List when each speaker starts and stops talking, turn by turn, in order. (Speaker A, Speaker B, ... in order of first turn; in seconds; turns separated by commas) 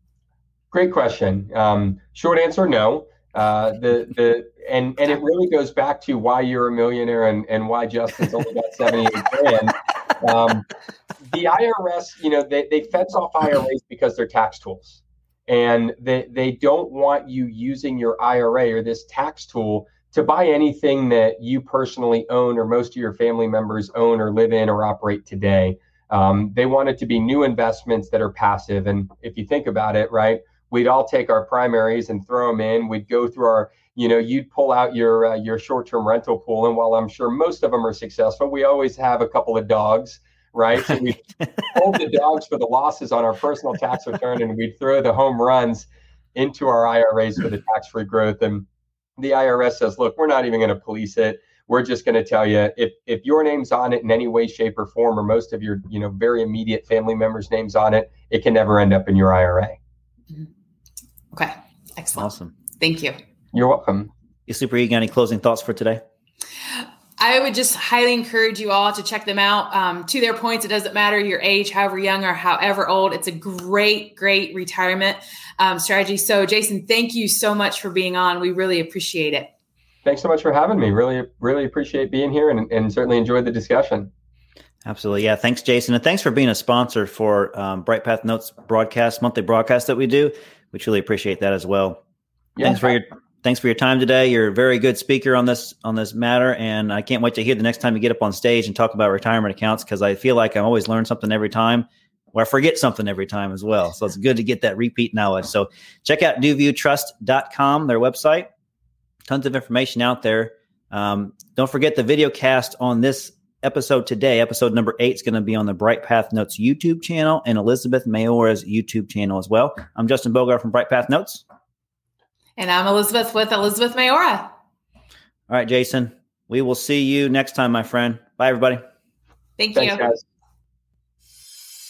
Speaker A: 0.7-48.6, Speaker A: 49.2-59.8, Speaker B: 61.3-63.2, Speaker C: 62.1-62.5, Speaker A: 63.5-64.1, Speaker C: 64.5-66.0, Speaker B: 66.7-79.5, Speaker A: 80.0-84.1, Speaker C: 84.8-92.0, Speaker A: 92.6-92.9, Speaker C: 92.6-108.5, Speaker C: 109.3-121.4, Speaker B: 122.6-124.5, Speaker C: 125.5-128.8, Speaker B: 129.6-130.1, Speaker A: 129.7-130.2